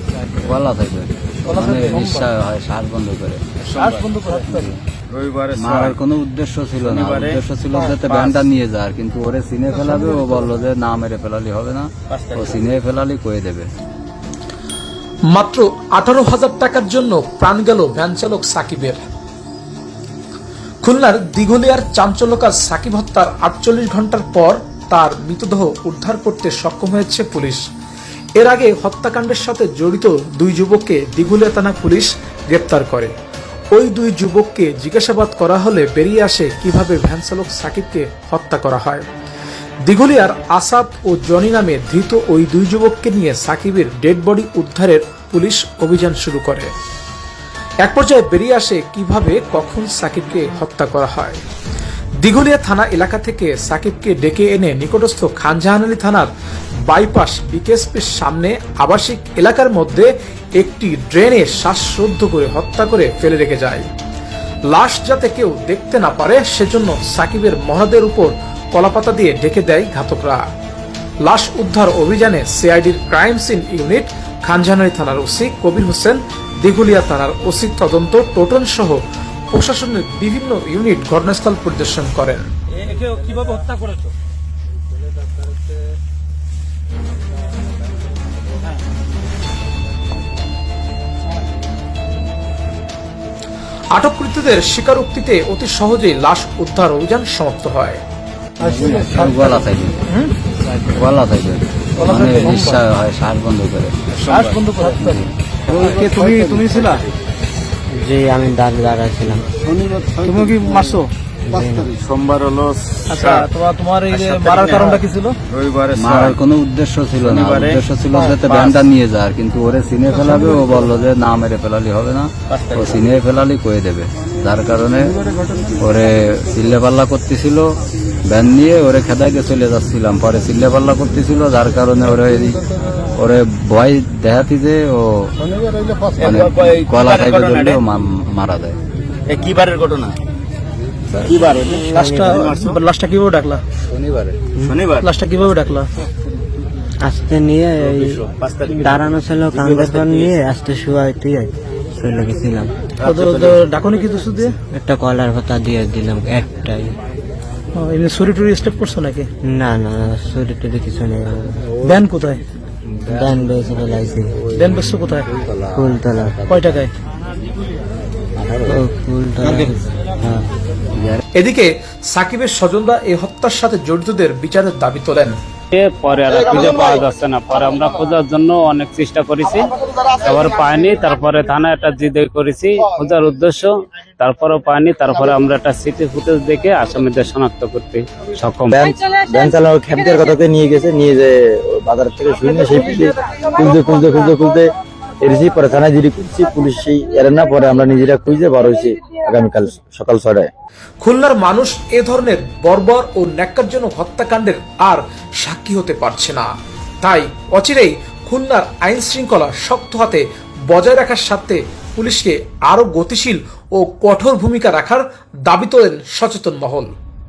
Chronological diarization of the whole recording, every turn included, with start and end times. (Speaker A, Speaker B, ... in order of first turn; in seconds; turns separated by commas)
Speaker A: 0.3-3.4, Speaker B: 1.5-2.2, Speaker C: 3.6-4.2, Speaker B: 3.8-4.7, Speaker A: 4.4-4.8, Speaker C: 5.1-6.0, Speaker A: 5.5-13.7, Speaker C: 6.7-8.5, Speaker C: 12.1-12.7, Speaker D: 15.3-19.0, Speaker D: 20.8-27.6, Speaker D: 28.4-33.1, Speaker D: 33.7-39.1, Speaker D: 39.9-46.7, Speaker D: 47.8-51.4, Speaker D: 52.2-56.3, Speaker D: 56.9-63.9, Speaker D: 64.7-70.4, Speaker D: 71.2-79.0, Speaker D: 79.5-82.5, Speaker C: 83.0-83.5, Speaker D: 93.9-98.0, Speaker A: 98.6-100.0, Speaker B: 99.0-99.4, Speaker B: 100.1-100.3, Speaker A: 100.9-104.0, Speaker B: 102.0-102.8, Speaker C: 104.1-105.0, Speaker B: 104.3-107.0, Speaker A: 105.0-105.8, Speaker C: 105.7-107.0, Speaker E: 107.9-109.5, Speaker C: 109.8-110.1, Speaker B: 110.2-111.1, Speaker E: 111.5-111.9, Speaker C: 112.0-113.5, Speaker B: 113.1-115.4, Speaker C: 114.1-116.4, Speaker A: 115.9-125.2, Speaker C: 117.2-118.9, Speaker C: 122.5-123.1, Speaker A: 125.8-127.8, Speaker A: 128.3-135.3, Speaker C: 136.2-137.8, Speaker A: 136.2-138.8, Speaker C: 139.3-140.2, Speaker C: 141.1-142.8, Speaker B: 141.9-143.6, Speaker E: 141.9-142.5, Speaker A: 143.9-144.3, Speaker C: 144.1-145.1, Speaker B: 145.0-145.9, Speaker E: 147.0-148.2, Speaker C: 147.8-150.3, Speaker E: 148.8-152.8, Speaker C: 153.0-153.6, Speaker B: 153.0-154.6, Speaker E: 154.7-157.0, Speaker B: 157.7-159.3, Speaker E: 159.4-161.7, Speaker B: 161.8-162.4, Speaker E: 163.1-164.7, Speaker B: 164.5-165.3, Speaker E: 165.7-166.4, Speaker B: 166.4-166.9, Speaker E: 168.6-170.5, Speaker D: 171.3-175.4, Speaker F: 175.7-188.8, Speaker G: 188.7-194.7, Speaker G: 195.2-200.5, Speaker D: 201.0-206.5, Speaker D: 207.0-216.9